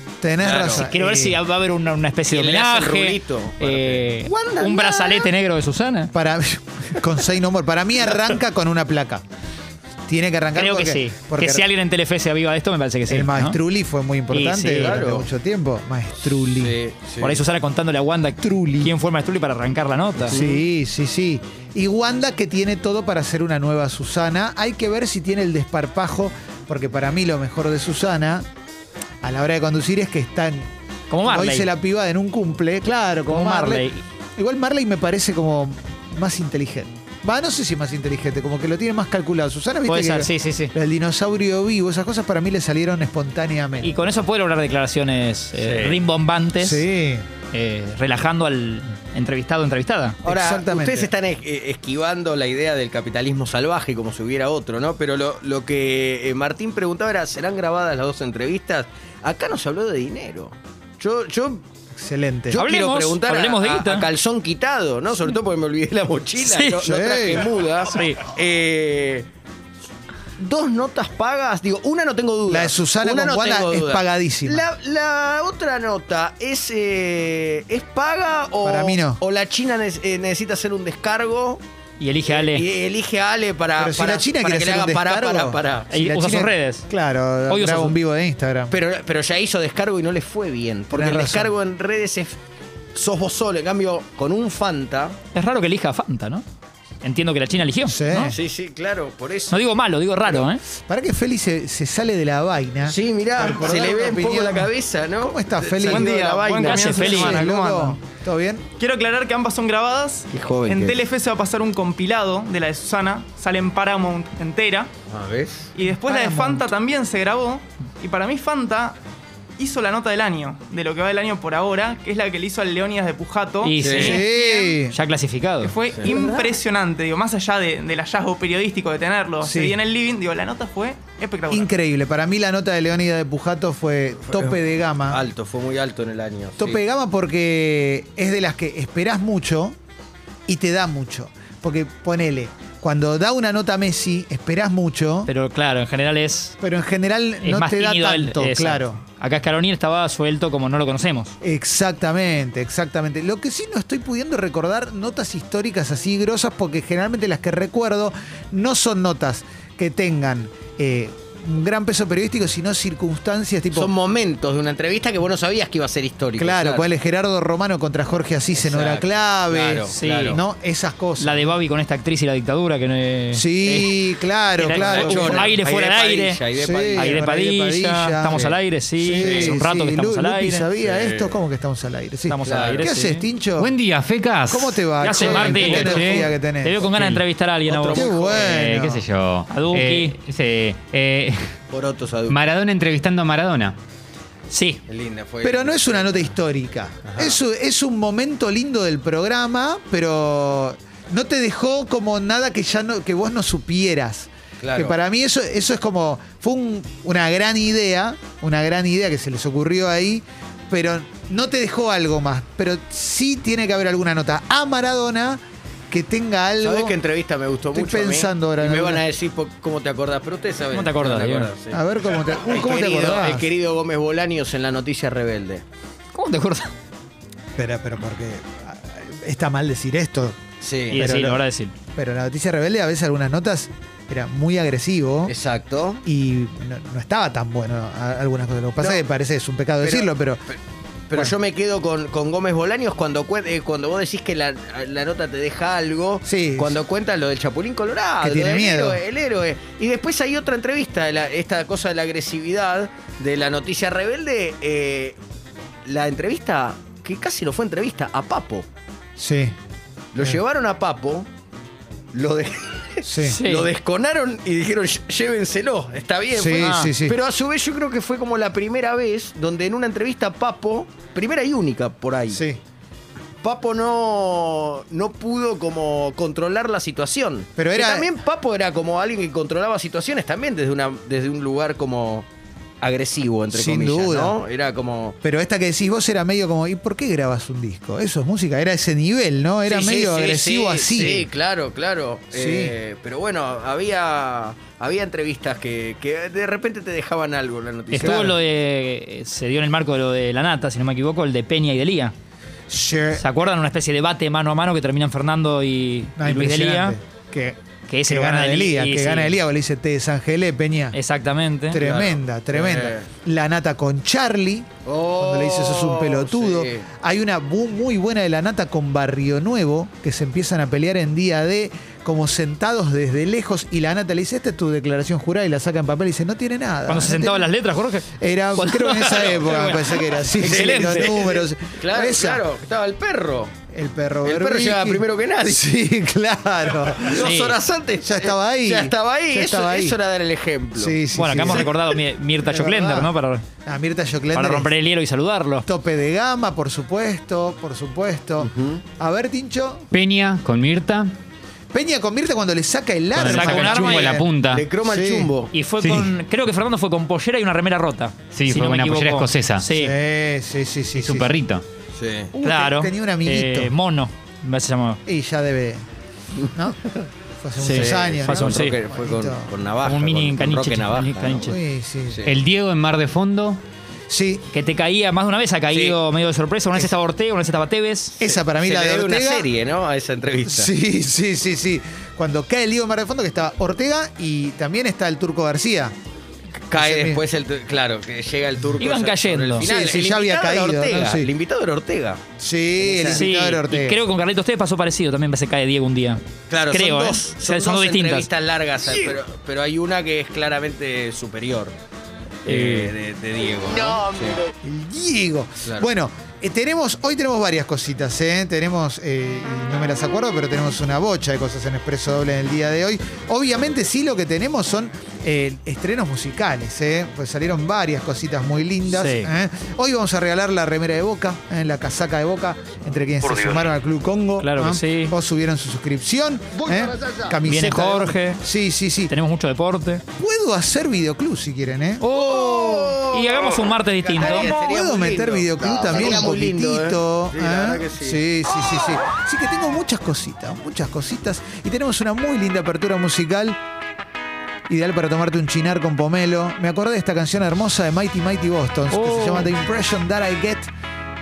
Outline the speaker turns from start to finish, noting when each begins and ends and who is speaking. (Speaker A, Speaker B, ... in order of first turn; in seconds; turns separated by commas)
Speaker A: 0.2-1.4, Speaker B: 0.4-0.9, Speaker C: 0.7-6.1, Speaker B: 2.3-5.3, Speaker A: 6.1-9.2, Speaker A: 10.1-11.7, Speaker C: 10.5-13.6, Speaker A: 13.1-16.8, Speaker C: 14.3-15.0, Speaker B: 14.7-15.3, Speaker B: 16.6-17.4, Speaker C: 17.2-20.4, Speaker A: 18.4-18.9, Speaker A: 20.3-28.4, Speaker B: 20.3-20.6, Speaker A: 29.2-30.7, Speaker C: 31.1-31.7, Speaker A: 31.2-43.9, Speaker C: 33.3-34.0, Speaker C: 39.9-40.7, Speaker C: 43.8-46.8, Speaker B: 45.6-46.0, Speaker A: 46.6-47.2, Speaker C: 47.5-50.2, Speaker B: 50.2-61.6, Speaker A: 50.2-51.1, Speaker A: 61.9-62.6, Speaker B: 62.5-69.3, Speaker C: 62.5-64.1, Speaker C: 66.4-66.8, Speaker A: 66.8-67.5, Speaker C: 67.9-68.2, Speaker B: 70.4-81.6, Speaker A: 72.5-74.7, Speaker A: 78.6-79.2, Speaker C: 82.0-82.7, Speaker B: 82.2-85.9, Speaker A: 83.8-88.7, Speaker C: 85.9-86.8, Speaker C: 87.5-88.0, Speaker B: 88.7-92.3, Speaker A: 90.9-91.5, Speaker B: 92.9-95.2, Speaker C: 95.3-96.4, Speaker C: 97.0-98.3, Speaker A: 97.8-98.3, Speaker B: 98.3-99.6, Speaker C: 99.5-100.6, Speaker A: 100.8-104.7, Speaker B: 102.8-107.1, Speaker A: 105.2-106.1, Speaker D: 105.8-108.0, Speaker C: 106.6-107.5, Speaker A: 106.9-108.6, Speaker D: 108.8-114.9, Speaker B: 110.3-111.0, Speaker B: 115.1-115.7, Speaker D: 115.7-119.0, Speaker A: 115.9-116.7, Speaker D: 119.6-124.8, Speaker C: 123.6-124.3, Speaker B: 123.8-124.2, Speaker A: 124.0-124.9, Speaker C: 124.9-125.7, Speaker D: 125.6-131.7, Speaker A: 129.4-129.8, Speaker A: 131.5-135.2, Speaker B: 134.3-136.8, Speaker A: 136.6-139.8, Speaker A: 140.5-145.3, Speaker C: 145.3-146.6, Speaker A: 146.6-149.0, Speaker C: 147.4-151.3, Speaker A: 151.4-163.9, Speaker B: 163.7-166.9, Speaker A: 166.4-171.5, Speaker B: 168.5-170.4, Speaker C: 169.9-170.4, Speaker C: 171.2-174.0, Speaker A: 173.3-175.5, Speaker C: 174.6-176.4, Speaker B: 174.7-177.2, Speaker A: 176.6-183.7, Speaker C: 176.9-180.7, Speaker B: 179.2-179.6, Speaker B: 180.8-181.4, Speaker C: 182.3-183.3, Speaker B: 182.4-182.9, Speaker E: 183.6-186.3, Speaker A: 184.5-186.9, Speaker C: 185.0-188.9, Speaker E: 186.9-187.2, Speaker B: 187.7-188.7, Speaker A: 187.9-189.0, Speaker E: 188.5-191.4, Speaker C: 189.5-190.2, Speaker B: 191.7-192.4, Speaker E: 192.2-193.8, Speaker C: 194.5-194.8, Speaker B: 194.9-196.3, Speaker A: 195.4-216.9, Speaker B: 197.1-197.4, Speaker B: 204.6-205.0, Speaker B: 216.6-225.6, Speaker A: 217.7-219.0, Speaker C: 220.7-221.5, Speaker A: 221.7-223.5, Speaker C: 226.1-226.7, Speaker A: 227.6-230.4, Speaker B: 230.6-231.1, Speaker C: 230.9-231.7, Speaker A: 230.9-231.4, Speaker A: 231.9-235.3, Speaker B: 235.3-236.0, Speaker A: 236.0-240.4, Speaker B: 238.8-239.1, Speaker B: 239.8-240.1, Speaker B: 241.1-255.2, Speaker A: 246.2-246.8, Speaker A: 248.2-249.0, Speaker B: 255.8-258.7, Speaker A: 259.2-259.5, Speaker B: 260.1-261.3, Speaker B: 262.1-272.4, Speaker A: 263.1-263.4, Speaker C: 263.2-263.7, Speaker A: 266.3-267.1, Speaker C: 266.6-266.9, Speaker A: 272.3-272.6, Speaker B: 273.4-282.3, Speaker A: 277.6-278.1, Speaker B: 282.8-285.1, Speaker A: 283.5-284.4, Speaker A: 285.2-291.3, Speaker B: 289.6-298.4, Speaker A: 292.3-292.8, Speaker C: 297.9-302.1, Speaker A: 298.0-298.3, Speaker A: 302.7-303.2, Speaker C: 303.2-307.0, Speaker A: 306.2-311.0, Speaker C: 307.9-309.4, Speaker C: 310.9-311.8, Speaker A: 311.7-327.5, Speaker B: 311.8-313.1, Speaker B: 314.9-316.9, Speaker C: 326.9-329.3, Speaker A: 328.2-332.4, Speaker B: 328.6-333.5, Speaker C: 330.5-331.1, Speaker A: 333.7-337.4, Speaker B: 334.2-335.6, Speaker B: 337.0-342.0, Speaker C: 337.2-337.6, Speaker A: 338.0-340.0, Speaker A: 340.8-341.7, Speaker C: 341.1-343.4, Speaker A: 342.4-343.1, Speaker A: 343.6-344.7, Speaker C: 344.3-345.6, Speaker A: 345.6-349.9, Speaker B: 348.4-348.8, Speaker E: 349.9-351.1, Speaker A: 351.7-354.3, Speaker E: 353.1-354.6, Speaker C: 353.2-354.2, Speaker B: 354.5-355.5, Speaker A: 354.8-355.3, Speaker C: 355.5-359.9, Speaker E: 355.8-356.1, Speaker E: 358.3-359.6, Speaker A: 359.7-361.4, Speaker E: 360.9-361.6, Speaker B: 362.0-362.3, Speaker A: 362.3-363.7, Speaker C: 362.4-365.0, Speaker A: 365.1-365.8, Speaker A: 366.5-369.5, Speaker C: 367.6-368.8, Speaker B: 367.6-371.5, Speaker C: 369.8-371.6, Speaker A: 371.4-372.3, Speaker B: 372.1-372.3, Speaker E: 372.2-373.6, Speaker A: 374.1-374.4, Speaker C: 374.5-378.2, Speaker B: 375.7-376.0, Speaker A: 378.2-379.5, Speaker B: 378.2-380.7, Speaker A: 380.4-385.9, Speaker B: 386.7-392.2, Speaker A: 386.7-387.2, Speaker C: 388.8-389.7, Speaker A: 389.6-391.3, Speaker A: 392.4-394.0, Speaker B: 392.8-393.2, Speaker C: 393.1-398.3, Speaker B: 396.5-401.7, Speaker C: 402.4-402.9, Speaker B: 402.4-404.4, Speaker A: 404.6-429.1, Speaker C: 418.9-419.3, Speaker C: 424.4-425.1, Speaker B: 426.6-427.4, Speaker C: 427.4-428.4, Speaker C: 429.1-430.0, Speaker A: 430.2-432.1, Speaker C: 432.0-434.5, Speaker B: 432.1-438.2, Speaker A: 434.4-443.6, Speaker A: 444.7-450.7, Speaker C: 448.9-449.5